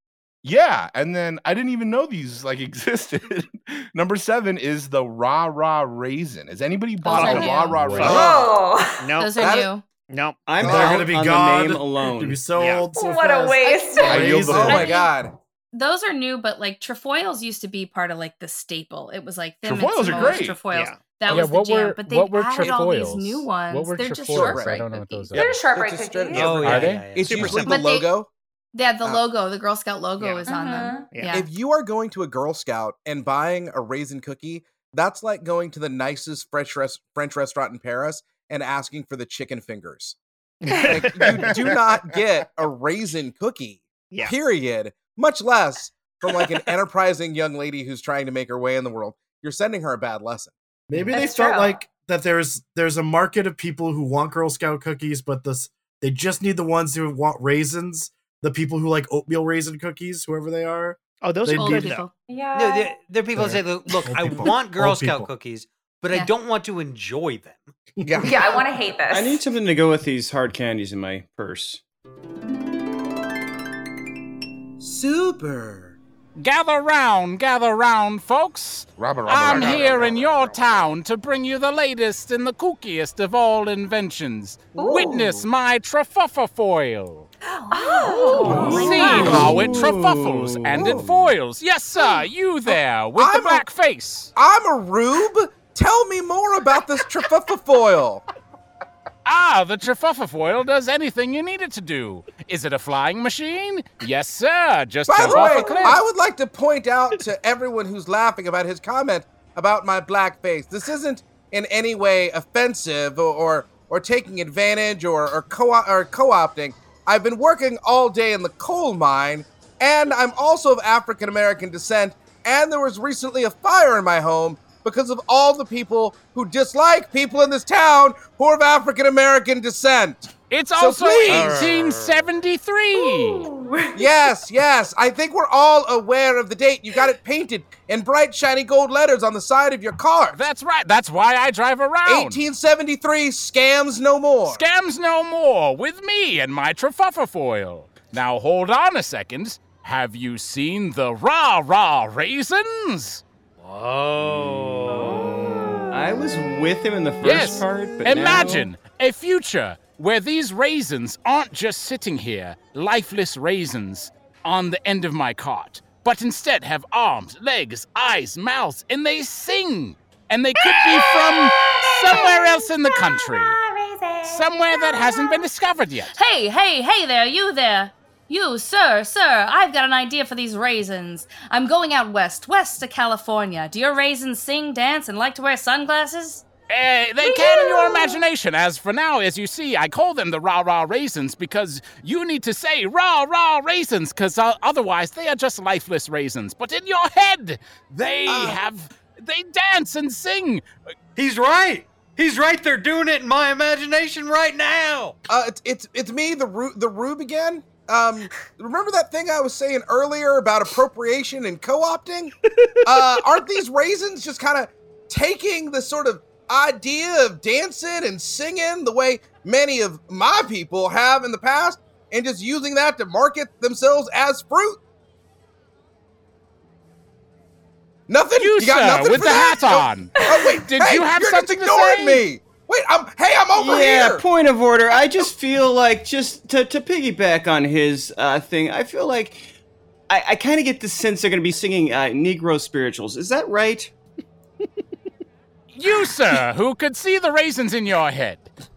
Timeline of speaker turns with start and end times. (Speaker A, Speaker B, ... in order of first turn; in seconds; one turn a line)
Speaker A: 0.4-8.5
Speaker B: 7.0-8.0
Speaker C: 7.1-8.3
Speaker D: 7.7-8.2
Speaker E: 8.0-8.5
Speaker F: 8.0-9.1
Speaker C: 9.0-11.0
Speaker B: 9.2-9.8
Speaker E: 9.4-9.7
Speaker G: 10.4-12.4
Speaker H: 10.6-14.9
Speaker C: 12.6-12.8
Speaker F: 12.9-14.3
Speaker B: 13.6-15.1
Speaker A: 14.0-14.9
Speaker E: 14.0-15.3
Speaker B: 15.7-25.4
Speaker A: 19.6-20.6
Speaker C: 20.7-21.0
Speaker D: 21.2-25.6
Speaker E: 24.3-28.3
Speaker F: 25.3-26.9
Speaker I: 26.3-27.6
Speaker D: 26.6-27.6
Speaker C: 27.2-27.9
Speaker B: 27.6-28.1
Speaker B: 28.7-31.5
Speaker C: 30.2-30.5
Speaker F: 30.4-31.2
Speaker E: 31.3-40.2
Speaker C: 40.6-41.5
Speaker E: 40.8-50.5
Speaker H: 50.9-62.0
Speaker F: 51.1-51.8
Speaker C: 61.2-62.0
Speaker B: 61.5-62.1
Speaker F: 62.3-63.0
Speaker I: 62.5-67.7
Speaker H: 63.3-65.3
Speaker H: 68.0-68.4
Speaker E: 68.0-68.6
Speaker F: 68.2-69.5
Speaker G: 69.1-71.8
Speaker E: 74.8-76.0
Speaker D: 76.4-87.3
Speaker A: 79.0-80.4
Speaker F: 84.7-85.3
Speaker F: 87.5-89.3
Speaker B: 87.7-89.7
Speaker G: 88.4-91.0
Speaker D: 88.7-94.3
Speaker E: 90.7-91.1
Speaker E: 93.2-93.7
Speaker E: 94.3-98.2
Speaker D: 99.2-106.0
Speaker E: 105.1-131.8
Speaker F: 105.4-105.9
Speaker D: 130.5-133.5
Speaker I: 131.3-132.3
Speaker F: 132.9-134.2
Speaker E: 133.9-140.4
Speaker D: 140.3-142.4
Speaker E: 142.0-144.7
Speaker D: 144.4-153.2
Speaker I: 153.6-155.1
Speaker D: 154.3-155.6
Speaker G: 155.9-158.7
Speaker D: 157.2-173.6
Speaker F: 170.6-175.4
Speaker D: 174.2-176.1
Speaker B: 176.1-186.4
Speaker D: 186.7-200.6
Speaker B: 187.2-188.2
Speaker E: 198.3-198.6
Speaker I: 201.2-205.2
Speaker E: 205.3-224.8
Speaker E: 228.1-234.2
Speaker D: 228.4-232.2
Speaker F: 230.2-230.4
Speaker G: 233.5-239.5
Speaker G: 240.1-243.9
Speaker D: 245.7-248.5